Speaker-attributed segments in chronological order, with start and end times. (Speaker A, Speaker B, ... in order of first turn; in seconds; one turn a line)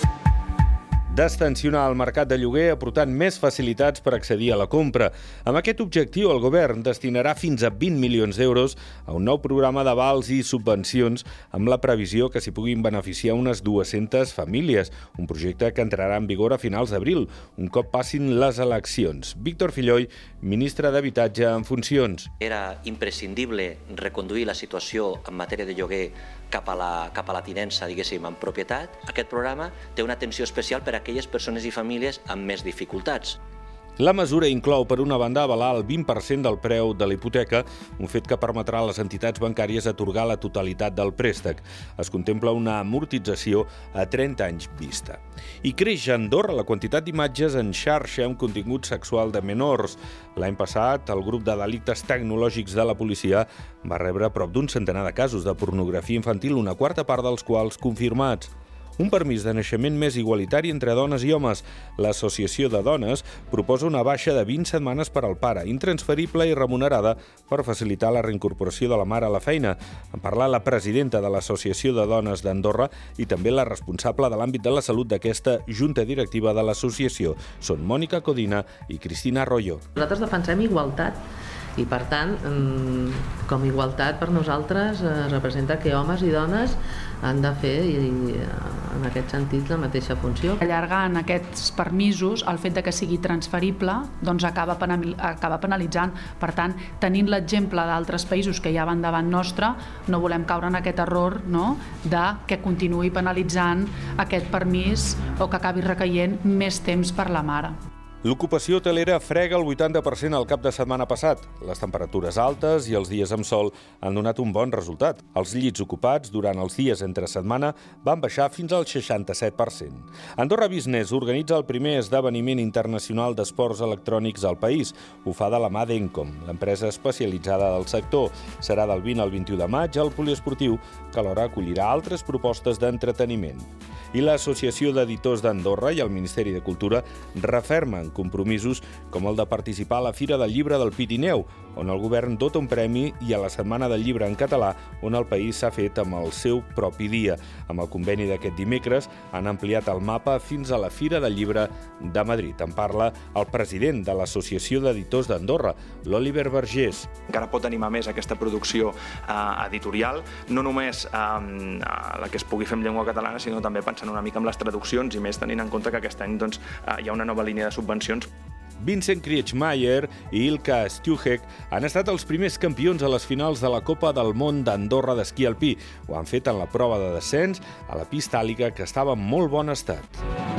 Speaker A: 1.1-22.3
Speaker B: 22.4-33.4
Speaker A: 34.0-79.8
Speaker C: 80.0-81.2
Speaker C: 81.8-90.6
Speaker D: 90.6-107.7
Speaker A: 108.2-157.1
Speaker E: 157.3-168.3
Speaker A: 168.8-180.2